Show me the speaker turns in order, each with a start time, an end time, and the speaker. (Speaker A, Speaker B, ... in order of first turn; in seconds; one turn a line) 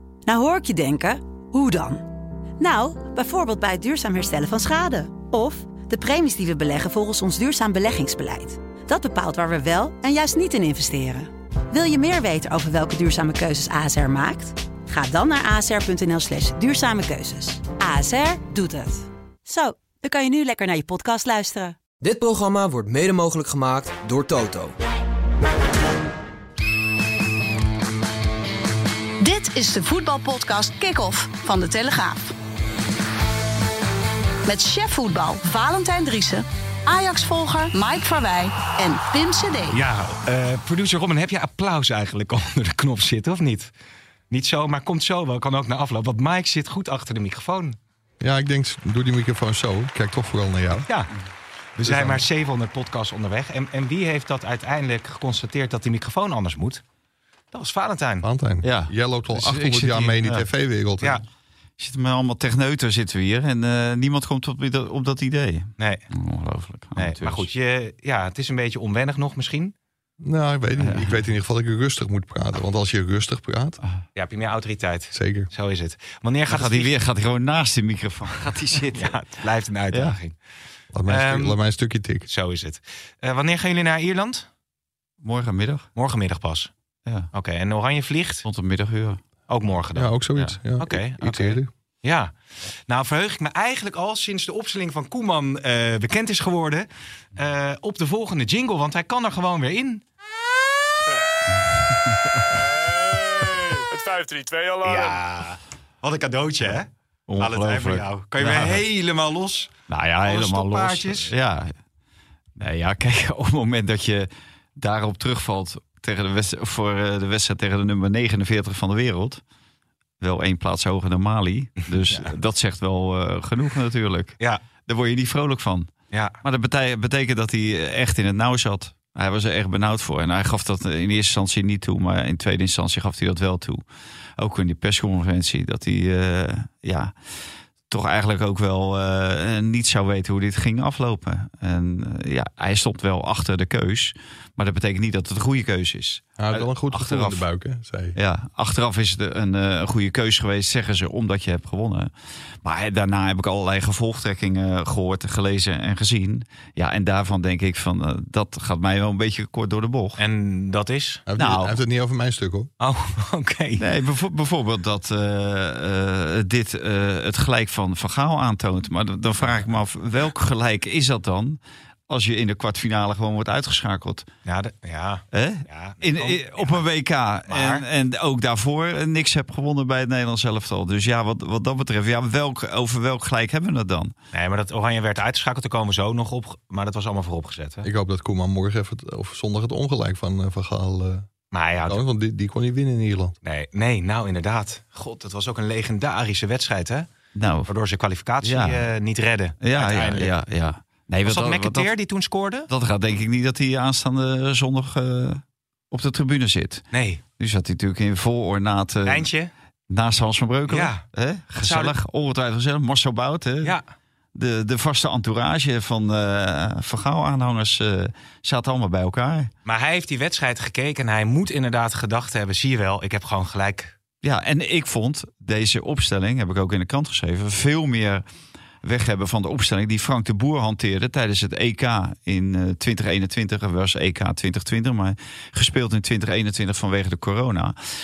Speaker A: 0.3-2.0
Speaker A: 2.6-21.8
Speaker B: 22.0-24.8
Speaker C: 29.2-32.2
Speaker C: 34.5-39.8
Speaker D: 39.7-43.7
Speaker D: 44.3-47.8
Speaker E: 48.2-50.9
Speaker D: 51.8-56.8
Speaker E: 51.8-52.2
Speaker D: 57.5-58.3
Speaker E: 58.2-61.2
Speaker F: 58.6-60.5
Speaker F: 61.8-67.5
Speaker D: 65.8-66.1
Speaker D: 67.0-69.7
Speaker E: 70.2-73.8
Speaker F: 70.8-71.1
Speaker D: 74.2-76.9
Speaker E: 75.1-75.5
Speaker F: 76.5-79.2
Speaker D: 78.9-80.4
Speaker F: 79.9-80.2
Speaker E: 80.9-82.3
Speaker D: 81.1-81.6
Speaker D: 82.3-84.5
Speaker F: 85.2-85.9
Speaker D: 86.0-86.7
Speaker D: 87.3-88.5
Speaker F: 88.5-89.2
Speaker D: 89.5-90.2
Speaker E: 90.0-91.7
Speaker D: 90.8-92.3
Speaker D: 92.9-100.0
Speaker D: 104.6-111.3
Speaker F: 107.3-108.8
Speaker F: 109.9-111.7
Speaker F: 112.6-119.4
Speaker F: 120.2-125.9
Speaker D: 126.1-126.4
Speaker F: 126.4-133.8
Speaker F: 134.4-137.1
Speaker F: 137.9-147.4
Speaker E: 146.4-148.2
Speaker F: 148.2-152.1
Speaker F: 152.6-160.2
Speaker D: 160.2-161.2
Speaker E: 161.3-162.7
Speaker F: 161.4-161.8
Speaker D: 162.8-163.8
Speaker F: 163.8-174.3
Speaker D: 174.5-176.8
Speaker F: 175.3-184.1
Speaker D: 177.5-177.9
Speaker D: 184.3-187.9
Speaker E: 187.8-191.3
Speaker D: 191.5-192.0
Speaker E: 191.9-193.3
Speaker D: 193.4-197.1
Speaker F: 197.3-197.7
Speaker D: 197.7-200.3
Speaker F: 198.4-198.9
Speaker F: 199.6-201.9
Speaker D: 201.2-202.7
Speaker F: 202.7-206.9
Speaker D: 206.9-207.2
Speaker F: 207.4-209.3
Speaker D: 209.1-209.5
Speaker F: 209.9-213.8
Speaker D: 210.7-211.0
Speaker D: 211.6-211.9
Speaker F: 214.3-219.5
Speaker D: 219.7-223.9
Speaker F: 224.2-228.2
Speaker F: 228.8-237.8